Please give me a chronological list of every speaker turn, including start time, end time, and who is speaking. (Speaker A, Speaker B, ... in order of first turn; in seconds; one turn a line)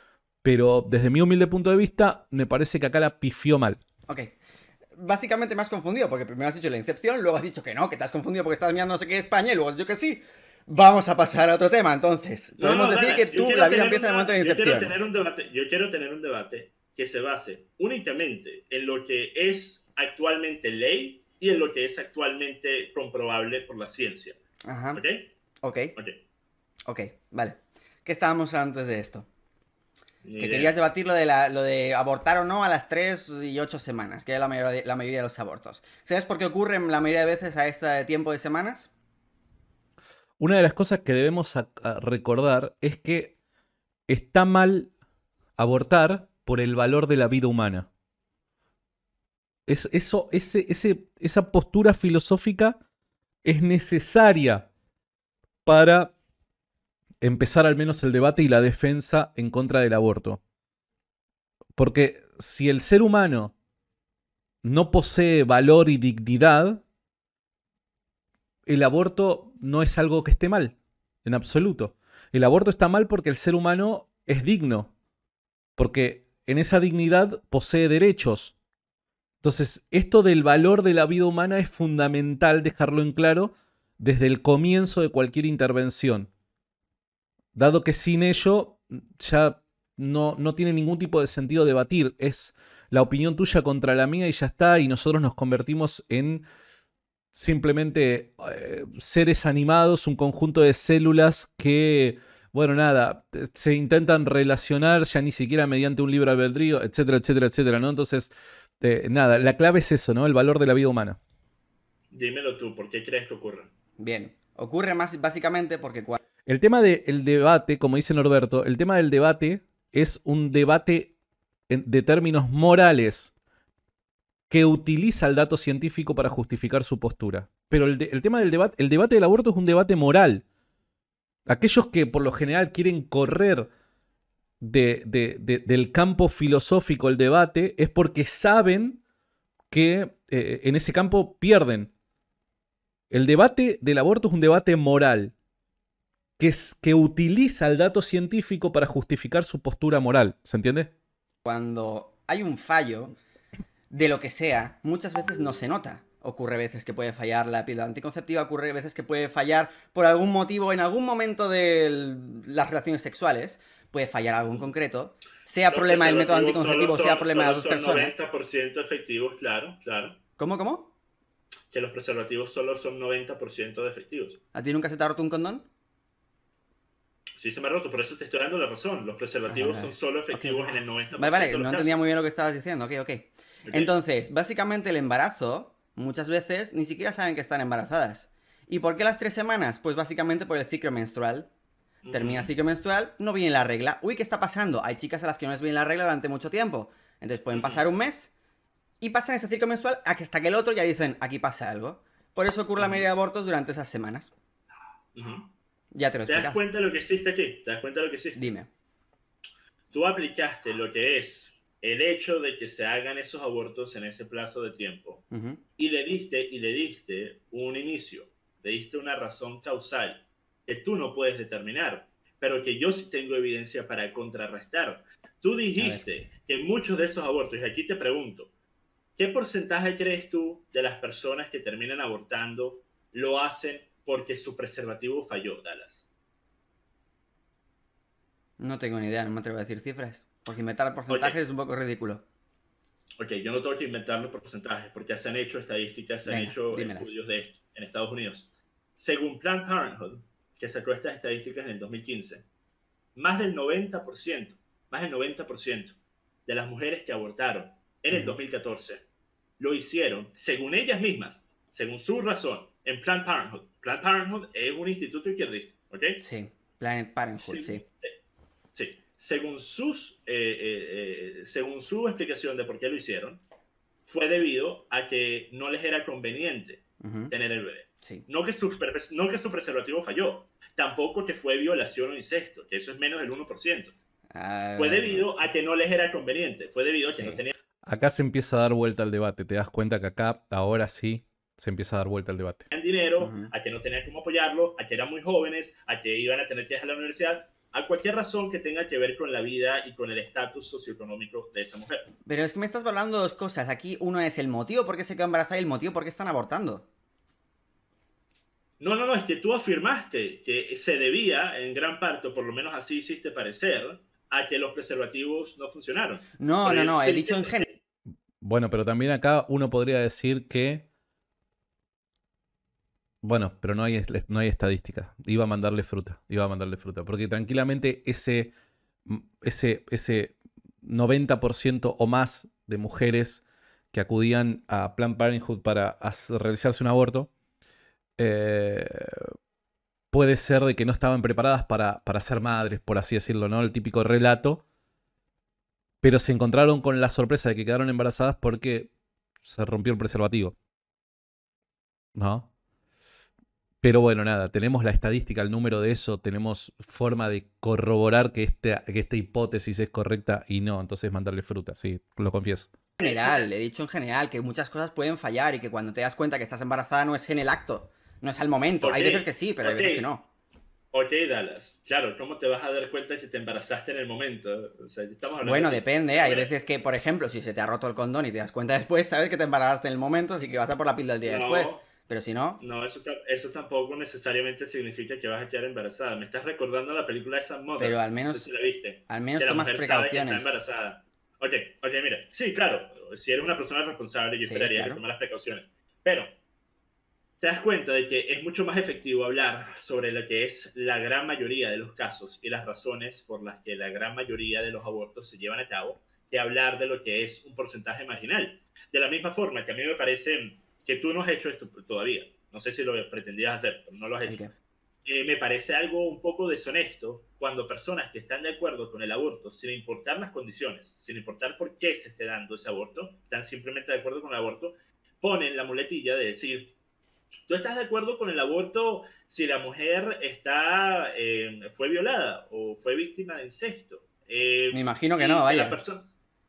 Speaker A: 0.4-3.8
Speaker B: 4.1-4.3
Speaker B: 5.0-14.9
Speaker C: 12.6-24.4
Speaker B: 24.6-25.0
Speaker C: 24.9-25.3
Speaker B: 25.6-26.0
Speaker B: 26.9-29.3
Speaker C: 30.2-30.7
Speaker B: 30.4-38.9
Speaker A: 40.4-43.4
Speaker A: 44.1-44.9
Speaker A: 45.6-47.9
Speaker A: 49.7-52.8
Speaker A: 53.4-54.7
Speaker A: 55.6-56.1
Speaker A: 57.2-60.4
Speaker A: 61.8-63.5
Speaker A: 64.6-66.8
Speaker A: 68.7-74.9
Speaker A: 75.8-78.5
Speaker A: 79.4-86.3
Speaker A: 87.5-96.5
Speaker A: 97.3-111.2
Speaker C: 112.1-113.7
Speaker B: 114.0-116.2
Speaker A: 116.5-121.1
Speaker A: 121.7-123.3
Speaker A: 124.5-130.4
Speaker A: 131.5-133.7
Speaker A: 134.6-139.0
Speaker A: 139.7-141.9
Speaker A: 143.1-145.3
Speaker A: 146.4-150.9
Speaker B: 151.4-153.2
Speaker B: 153.9-168.2
Speaker C: 165.7-170.2
Speaker B: 170.4-170.9
Speaker C: 171.7-174.4
Speaker B: 174.5-175.7
Speaker C: 177.4-182.0
Speaker B: 179.5-191.5
Speaker C: 183.6-183.9
Speaker C: 192.0-192.5
Speaker B: 192.1-198.3
Speaker C: 197.5-197.8
Speaker B: 199.0-204.3
Speaker C: 202.8-203.1
Speaker C: 205.1-205.5
Speaker B: 205.9-206.6
Speaker C: 206.3-208.4
Speaker B: 208.4-208.7
Speaker C: 209.9-215.2
Speaker B: 215.3-215.6
Speaker C: 215.8-228.5
Speaker B: 225.8-226.0
Speaker C: 229.2-236.1
Speaker B: 238.6-242.2
Speaker C: 241.1-241.4
Speaker C: 243.2-252.4
Speaker B: 246.2-247.1
Speaker C: 253.2-255.9
Speaker C: 256.5-259.0
Speaker C: 259.6-266.2
Speaker B: 266.2-267.9
Speaker C: 267.4-268.1
Speaker C: 268.7-273.4
Speaker C: 274.1-283.9
Speaker B: 277.0-277.3
Speaker B: 278.0-278.3
Speaker B: 284.3-285.3
Speaker C: 284.8-287.5
Speaker B: 287.1-287.4
Speaker A: 287.9-292.7
Speaker C: 292.7-302.1
Speaker B: 293.2-293.5
Speaker B: 302.2-306.9
Speaker C: 308.8-317.8
Speaker B: 316.4-317.6
Speaker A: 318.4-320.9
Speaker A: 323.2-328.5
Speaker A: 329.1-337.3
Speaker A: 338.2-339.3
Speaker A: 340.1-344.6
Speaker A: 346.0-348.9
Speaker A: 349.4-350.6
Speaker A: 352.1-352.5
Speaker A: 353.8-362.7
Speaker C: 363.0-363.5
Speaker B: 363.0-370.3
Speaker C: 368.8-370.1
Speaker C: 370.9-376.5
Speaker B: 375.4-382.6
Speaker C: 381.2-381.9
Speaker C: 382.6-396.3
Speaker B: 387.8-388.5
Speaker B: 389.1-390.6
Speaker B: 394.4-395.0
Speaker C: 397.4-414.4
Speaker B: 414.2-414.5
Speaker C: 415.1-426.7
Speaker C: 427.5-436.1
Speaker B: 434.7-435.8